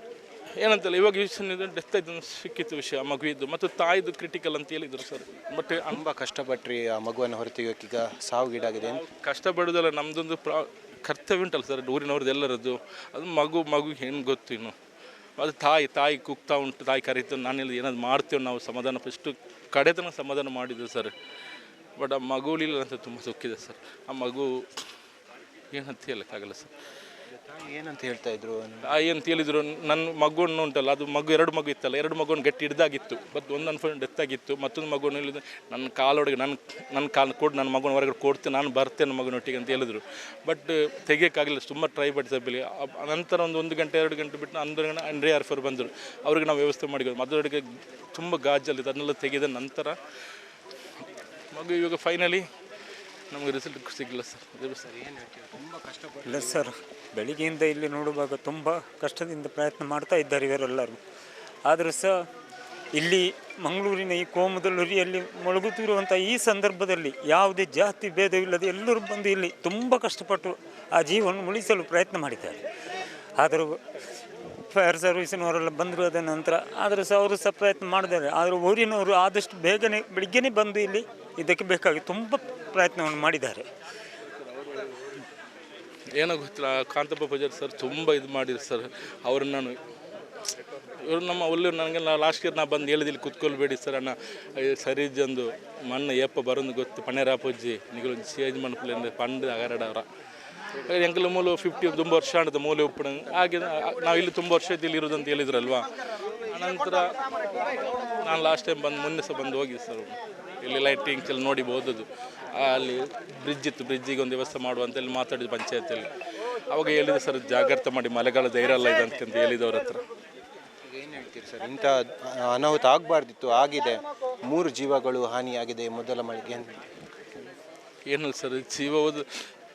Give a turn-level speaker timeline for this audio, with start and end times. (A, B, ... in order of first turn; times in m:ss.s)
0:00.6-0:06.0 A
0:05.9-0:09.1 B
0:09.0-0:14.8 A
0:15.4-0:21.1 A
0:22.0-0:24.7 A
0:25.7-0:26.7 A
0:27.3-0:29.0 B
0:28.8-0:47.6 A
0:48.1-0:50.0 A
0:51.5-0:52.5 A
0:53.3-0:54.9 A
0:54.9-0:56.7 B
0:56.3-1:01.0 C
1:01.7-1:02.2 C
1:03.0-1:12.6 C
1:13.4-1:13.8 C
1:14.6-1:23.7 C
1:26.2-1:29.8 A
1:31.0-1:40.1 A
1:40.9-1:45.9 A
1:46.5-1:47.1 A
1:48.2-1:56.1 A
1:56.7-2:00.0 A
2:00.9-2:06.9 B
2:08.1-2:09.3 A